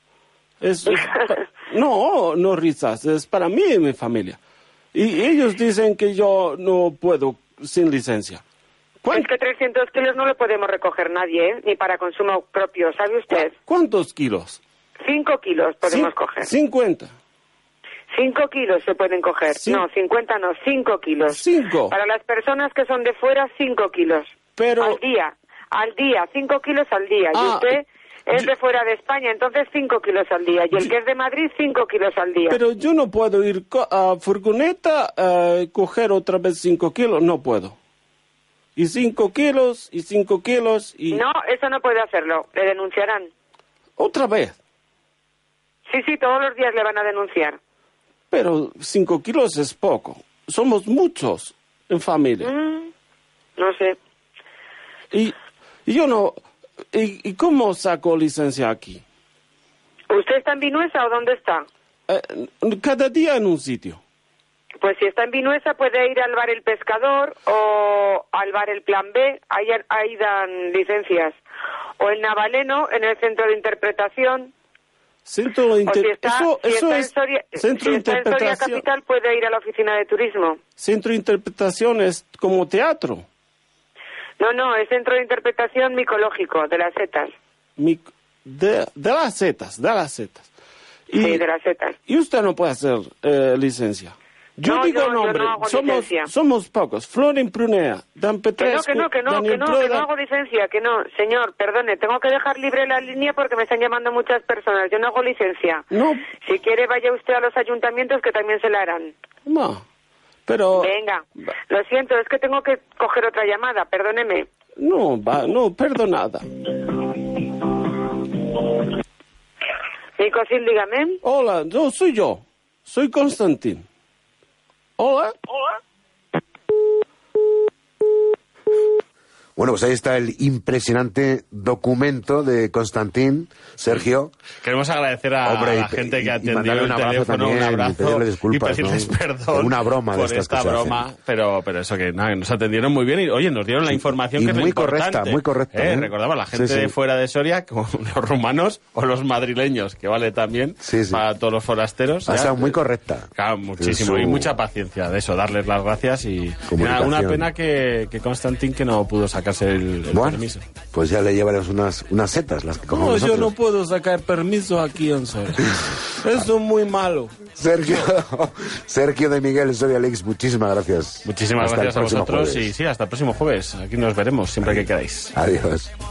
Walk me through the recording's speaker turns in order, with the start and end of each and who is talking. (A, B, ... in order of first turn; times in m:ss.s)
0:00.6-0:04.4 A
0:04.9-0:08.4 A
0:09.0-0:09.3 A
0:09.1-0:13.5 B
0:13.3-0:14.6 A
0:15.0-0:16.5 B
0:15.8-0:17.1 A
0:18.1-0:32.6 B
0:19.5-0:19.8 A
0:21.3-0:21.9 A
0:24.6-0:25.0 A
0:27.3-0:27.8 A
0:32.5-0:37.7 A
0:38.8-0:41.2 A
0:41.1-0:43.3 B
0:44.0-0:44.6 A
0:45.9-0:47.6 B
0:48.3-0:52.5 A
0:52.4-0:52.9 B
0:53.6-0:54.0 B
0:55.8-0:56.3 A
0:56.9-0:59.0 A
1:00.1-1:01.6 B
1:02.1-1:04.0 A
1:04.8-1:11.4 B
1:12.0-1:14.5 B
1:15.2-1:18.8 A
1:15.8-1:20.6 B
1:20.8-1:23.2 A
1:24.4-1:27.3 B
1:27.8-1:30.5 A
1:31.1-1:31.4 A
1:31.1-1:32.0 B
1:32.1-1:40.1 A
1:34.6-1:36.3 B
1:38.6-1:45.8 B
1:45.9-1:46.2 A
1:46.4-1:49.2 B
1:49.4-1:49.8 A
1:50.5-1:50.9 A
1:50.7-1:54.5 B
1:54.8-1:56.4 A
2:00.2-2:01.2 B
2:01.2-2:03.8 A
2:05.0-2:05.8 A
2:09.6-2:14.3 C
2:14.6-2:32.8 D
2:15.4-2:21.0 C
2:24.0-2:26.9 C
2:30.8-2:31.2 C
2:32.2-2:34.5 C
2:33.4-2:40.6 D
2:36.7-2:37.5 C
2:40.1-2:43.5 C
2:42.9-2:47.5 A
2:47.5-2:52.7 C
2:51.2-2:55.3 D
2:54.6-2:55.9 C